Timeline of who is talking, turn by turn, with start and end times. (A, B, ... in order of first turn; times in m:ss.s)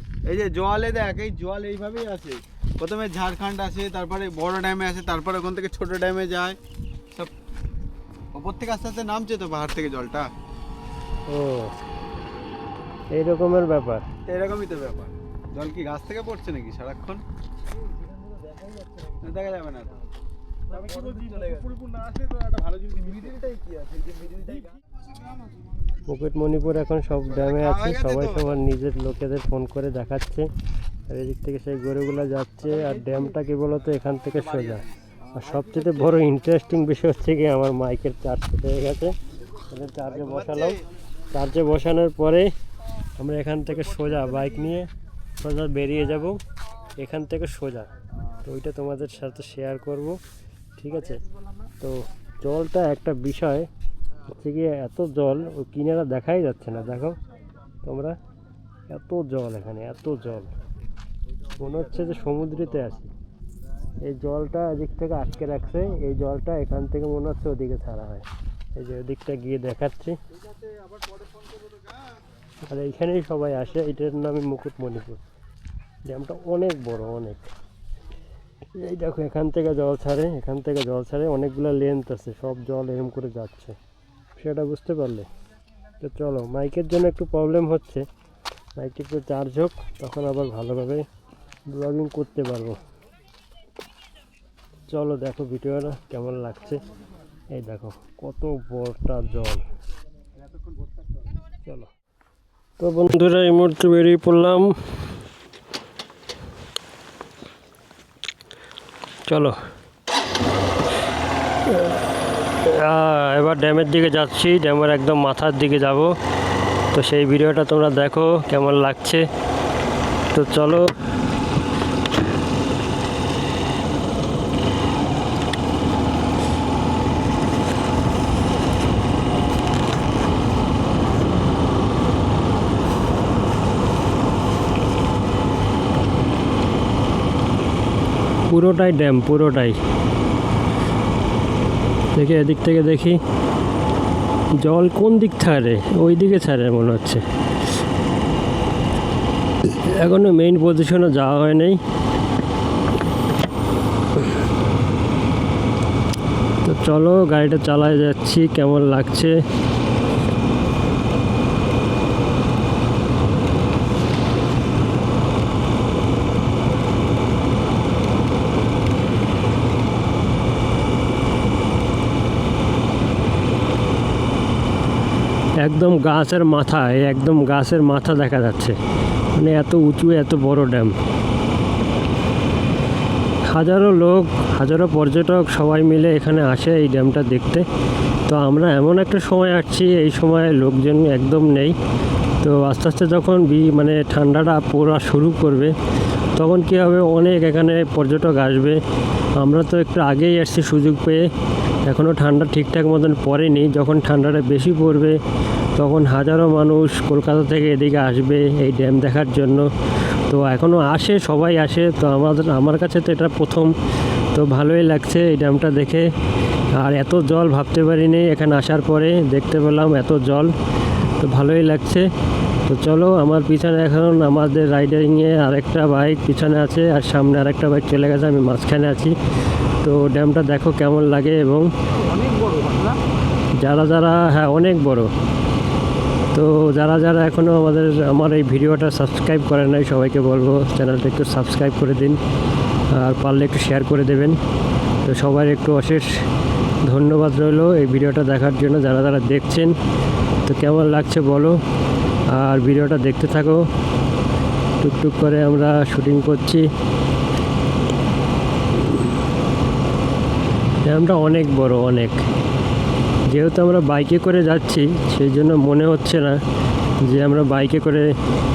0:00.2-0:06.6 A
0:08.3-0:10.3 A
0:11.3-0:11.7 B
0:13.1-0:14.0 B
0:14.3-0:17.2 A
0:19.1-0:19.9 A
0:20.7-0:24.8 A
0:26.0-0:30.5 B
0:27.4-0:28.2 A
0:31.1-0:39.2 B
0:39.7-0:40.8 B
0:40.1-0:40.8 A
0:41.3-0:42.5 B
0:43.2-0:46.4 B
0:47.0-0:50.2 B
0:50.8-0:51.2 B
0:51.8-0:53.7 B
0:54.2-0:57.2 B
0:57.8-0:58.2 B
0:58.9-1:00.5 B
1:01.6-1:03.1 B
1:04.0-1:10.2 B
1:12.6-1:15.2 B
1:16.0-1:17.5 B
1:18.7-1:23.8 B
1:24.4-1:25.3 B
1:26.0-1:28.1 B
1:28.8-1:31.1 B
1:31.7-1:32.8 B
1:34.9-1:36.8 B
1:37.5-1:39.6 B
1:41.6-1:41.9 B
1:42.8-1:44.8 B
1:49.3-1:49.6 B
1:51.7-1:52.0 B
1:52.6-1:56.2 B
1:56.9-1:59.3 B
2:00.3-2:00.9 B
2:18.5-2:19.8 B
2:22.1-2:23.2 B
2:24.6-2:27.2 B
2:29.6-2:31.8 B
2:36.6-2:39.4 B
2:55.6-2:58.8 B
2:59.3-3:01.0 B
3:03.4-3:07.7 B
3:08.2-3:11.8 B
3:12.4-3:15.7 B
3:16.3-3:18.8 B
3:19.4-3:21.3 B
3:21.8-3:25.2 B
3:25.7-3:29.7 B
3:30.2-3:33.7 B
3:34.3-3:36.1 B
3:36.7-3:40.5 B
3:41.2-3:42.1 B
3:42.6-3:49.2 B
3:49.8-3:51.7 B
3:52.1-3:52.9 A
3:53.6-3:55.1 B
3:56.3-4:02.2 B
4:02.9-4:04.4 B
4:05.0-4:06.2 B
4:06.8-4:09.8 B
4:10.4-4:11.6 B
4:12.3-4:13.7 B
4:14.8-4:16.7 B
4:20.8-4:22.2 B
4:23.3-4:26.4 B
4:27.0-4:28.2 B